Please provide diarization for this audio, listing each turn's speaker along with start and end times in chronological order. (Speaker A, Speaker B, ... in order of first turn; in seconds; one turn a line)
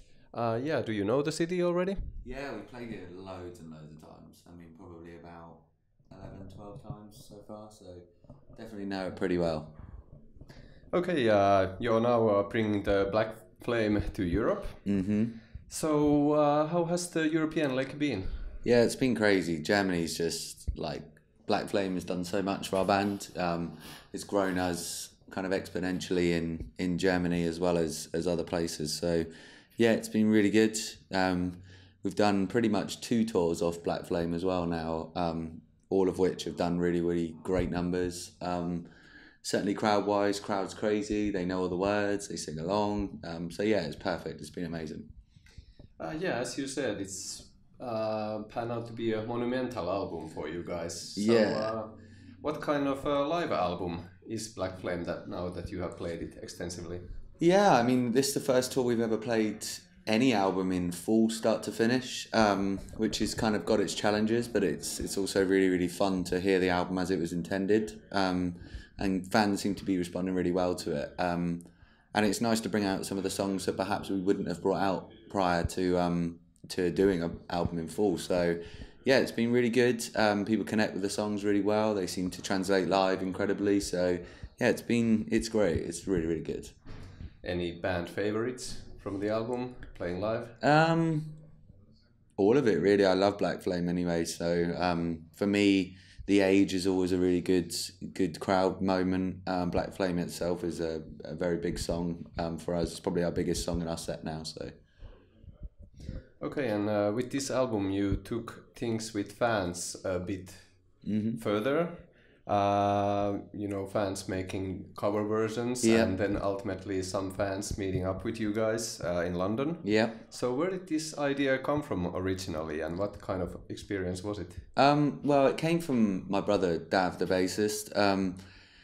Speaker A: 0.3-2.2
Speaker B: 2.2-8.1
Speaker B: 8.6-9.8
Speaker A: 10.9-14.8
Speaker B: 14.8-15.4
Speaker A: 15.7-18.4
Speaker B: 18.6-29.3
Speaker B: 29.8-38.9
Speaker B: 39.4-45.1
Speaker A: 46.0-57.0
Speaker B: 51.2-51.7
Speaker B: 57.4-86.7
Speaker A: 87.4-90.5
Speaker B: 90.6-91.4
Speaker B: 92.4-104.7
Speaker A: 106.4-124.7
Speaker B: 111.0-111.4
Speaker B: 115.8-116.2
Speaker B: 119.8-120.2
Speaker B: 124.8-128.4